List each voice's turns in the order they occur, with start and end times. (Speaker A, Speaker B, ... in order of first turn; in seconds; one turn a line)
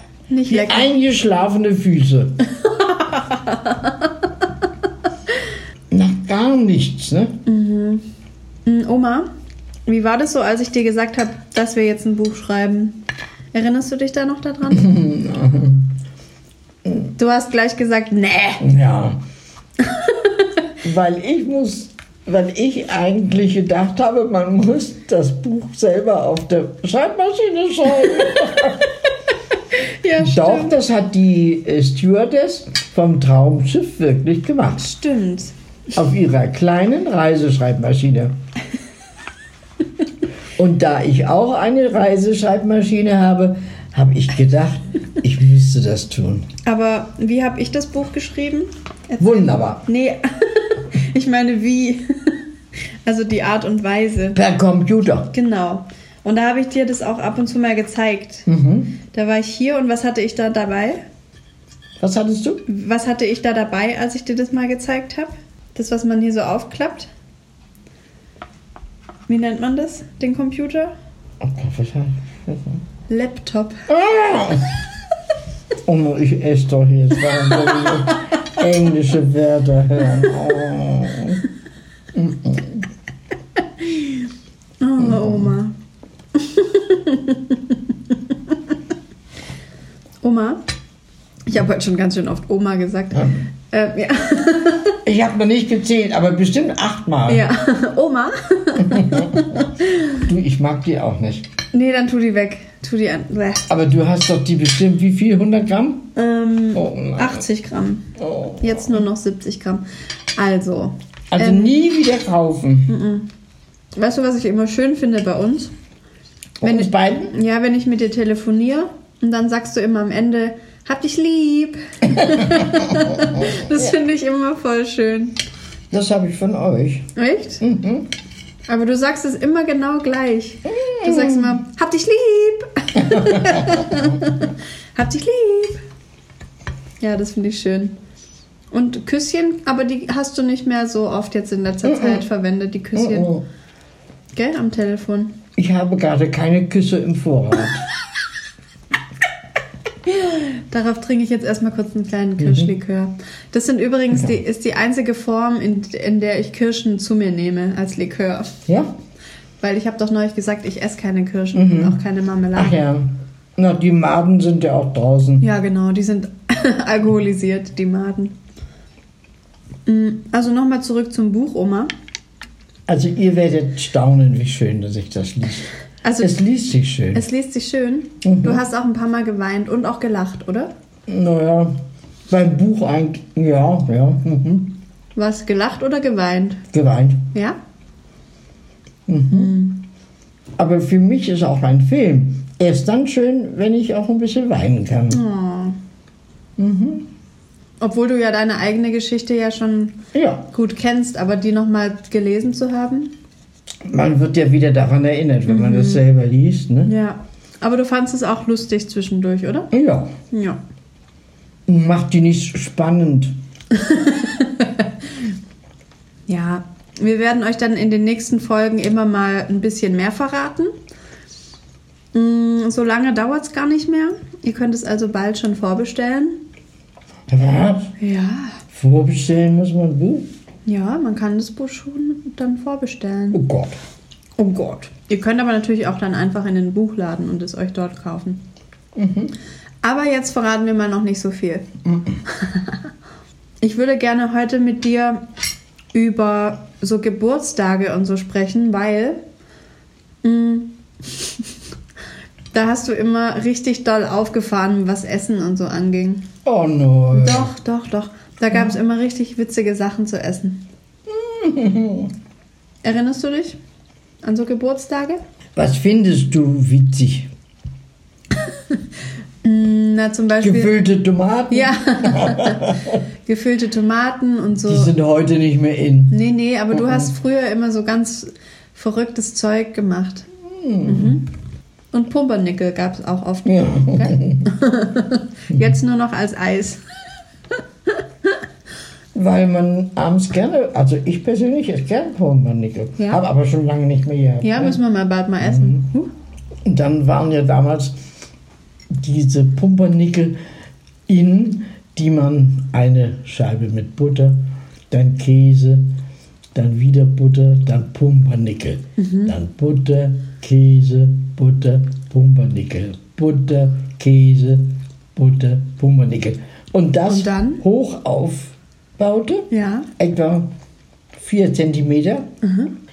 Speaker A: 0.3-0.9
Speaker B: 0.5-2.4
Speaker A: 2.7-4.1
Speaker B: 5.9-7.4
Speaker A: 7.5-8.1
Speaker A: 8.7-9.3
Speaker A: 9.9-13.0
Speaker A: 13.5-14.9
Speaker B: 14.7-15.9
Speaker B: 16.9-17.1
Speaker A: 17.2-18.7
Speaker B: 18.6-19.2
Speaker A: 19.8-20.5
Speaker B: 20.8-28.9
Speaker A: 29.7-30.8
Speaker B: 30.2-34.9
Speaker A: 34.8-35.5
Speaker B: 35.9-38.4
Speaker B: 40.6-46.5
Speaker A: 46.7-52.4
Speaker B: 49.2-49.9
Speaker A: 53.0-54.4
Speaker B: 54.4-55.3
Speaker A: 55.3-58.5
Speaker B: 58.5-59.0
Speaker A: 59.1-61.0
Speaker B: 62.0-62.6
Speaker A: 62.7-67.1
Speaker A: 69.3-70.9
Speaker B: 71.4-72.8
Speaker A: 73.1-73.8
Speaker B: 73.9-74.7
Speaker B: 75.8-81.4
Speaker A: 77.7-78.0
Speaker B: 82.1-82.9
Speaker A: 83.8-84.1
Speaker A: 84.8-85.8
Speaker B: 85.0-85.6
Speaker A: 86.4-88.6
Speaker A: 90.2-90.6
Speaker A: 91.5-95.0
Speaker B: 95.0-97.5
Speaker A: 97.3-100.2
Speaker B: 98.8-101.5
Speaker A: 101.7-103.7
Speaker B: 103.7-106.1
Speaker A: 106.2-109.8
Speaker B: 106.7-107.4
Speaker B: 108.2-109.0
Speaker A: 110.3-111.8
Speaker B: 111.3-112.9
Speaker A: 112.9-113.3
Speaker A: 114.0-115.7
Speaker B: 116.6-117.3
Speaker A: 116.6-125.4
Speaker B: 122.1-123.9
Speaker B: 125.9-127.1
Speaker A: 127.2-127.6
Speaker B: 127.6-128.1
Speaker A: 128.7-135.8
Speaker B: 130.7-131.6
Speaker B: 133.0-134.2
Speaker A: 137.0-138.0
Speaker A: 138.7-143.3
Speaker B: 141.8-142.2
Speaker B: 142.9-143.4
Speaker A: 144.3-145.4
Speaker B: 145.6-147.9
Speaker A: 150.1-158.6
Speaker B: 152.4-152.7
Speaker B: 154.1-154.4
Speaker B: 158.7-158.9
Speaker A: 159.6-162.8
Speaker B: 161.5-162.0
Speaker B: 162.6-165.4
Speaker A: 165.4-168.3
Speaker A: 169.9-171.9
Speaker B: 172.9-175.7
Speaker A: 176.0-176.4
Speaker B: 176.2-177.2
Speaker A: 177.1-180.7
Speaker B: 178.2-178.6
Speaker B: 181.1-181.7
Speaker B: 182.3-184.8
Speaker A: 185.2-186.6
Speaker B: 186.7-187.3
Speaker B: 189.1-189.6
Speaker A: 189.3-189.8
Speaker B: 190.6-195.2
Speaker A: 195.1-195.8
Speaker B: 196.6-197.1
Speaker A: 197.8-200.0
Speaker B: 200.1-200.5
Speaker A: 200.5-203.1
Speaker B: 203.9-206.9
Speaker A: 205.5-206.0
Speaker A: 206.8-209.7
Speaker B: 209.7-210.1
Speaker A: 210.3-210.6
Speaker B: 211.7-213.3
Speaker A: 213.7-214.9
Speaker A: 216.3-220.7
Speaker A: 222.1-226.4
Speaker B: 227.3-227.9
Speaker A: 228.0-228.6
Speaker B: 228.7-230.3
Speaker A: 230.7-233.4
Speaker B: 233.3-233.8
Speaker A: 234.4-238.4
Speaker B: 238.9-239.3
Speaker A: 239.8-241.7
Speaker B: 241.8-242.2
Speaker A: 242.3-242.8
Speaker A: 243.6-245.2
Speaker A: 245.9-249.2
Speaker A: 250.2-251.4
Speaker A: 252.5-256.2
Speaker B: 256.4-257.5
Speaker A: 257.1-260.7
Speaker B: 261.1-262.1
Speaker A: 262.8-263.6
Speaker A: 264.2-265.2
Speaker B: 265.6-267.3
Speaker A: 269.4-270.7
Speaker B: 270.4-273.0
Speaker A: 271.5-274.9
Speaker B: 274.7-276.2
Speaker A: 276.1-280.3
Speaker B: 276.7-277.1
Speaker B: 280.4-281.2
Speaker A: 280.9-281.3
Speaker A: 281.9-286.8
Speaker B: 283.4-284.5
Speaker A: 287.9-288.3
Speaker B: 289.1-294.8
Speaker A: 294.4-296.1
Speaker B: 295.4-295.9
Speaker B: 296.6-298.0
Speaker B: 298.9-300.4
Speaker B: 301.1-305.9
Speaker B: 306.6-320.5
Speaker A: 309.0-309.3
Speaker A: 317.1-317.6
Speaker A: 319.5-319.9
Speaker B: 321.2-322.3
Speaker A: 322.4-322.7